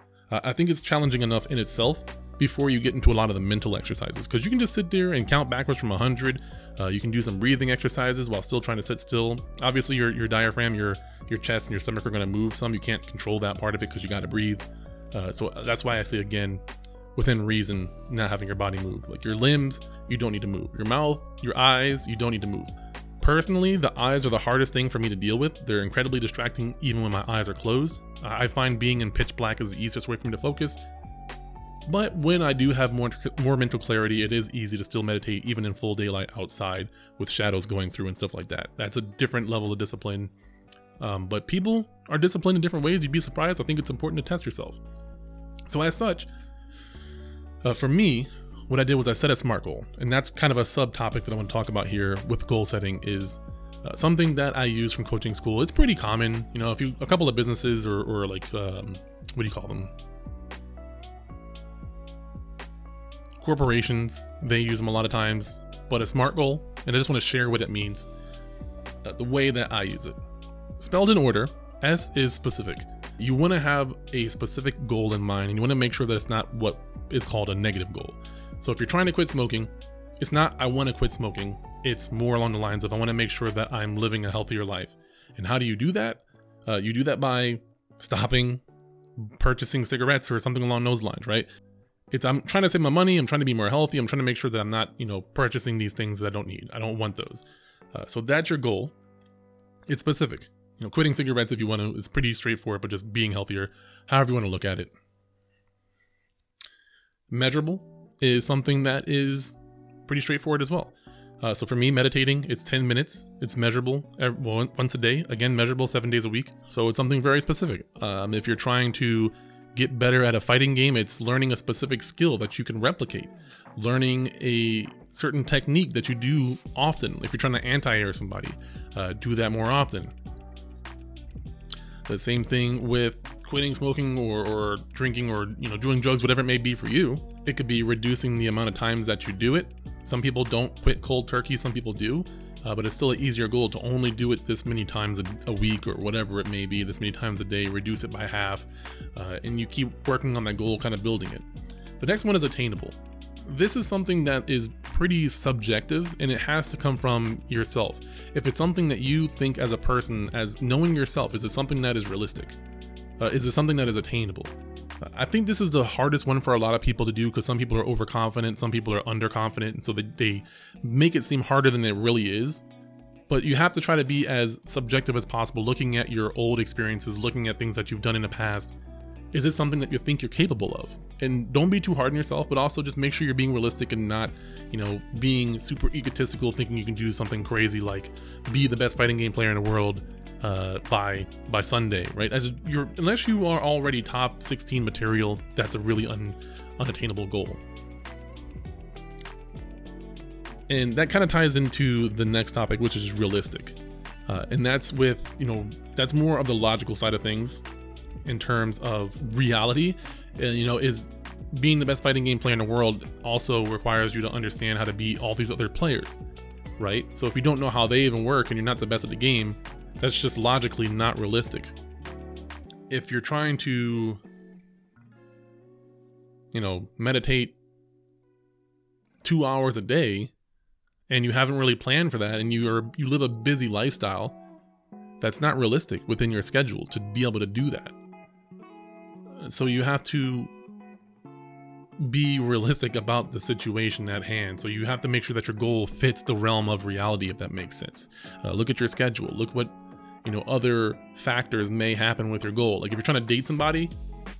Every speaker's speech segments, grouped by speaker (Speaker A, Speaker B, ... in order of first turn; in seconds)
Speaker A: 0.3-16.6, 17.1-30.8, 31.9-40.3, 41.0-44.8, 45.7-46.3, 47.6-59.9, 63.4-68.1, 69.0-70.2, 70.8-88.6, 89.2-91.5, 92.1-98.9, 99.9-104.9, 107.3-109.5, 110.0-130.1, 132.1-151.4, 152.0-162.6, 163.2-172.6, 173.3-178.7, 179.3-197.6, 200.7-207.6, 208.2-216.2, 216.8-221.7, 222.9-224.2, 226.5-227.6, 229.2-230.3, 231.1-234.4, 235.2-237.9, 239.4-240.5, 242.0-253.9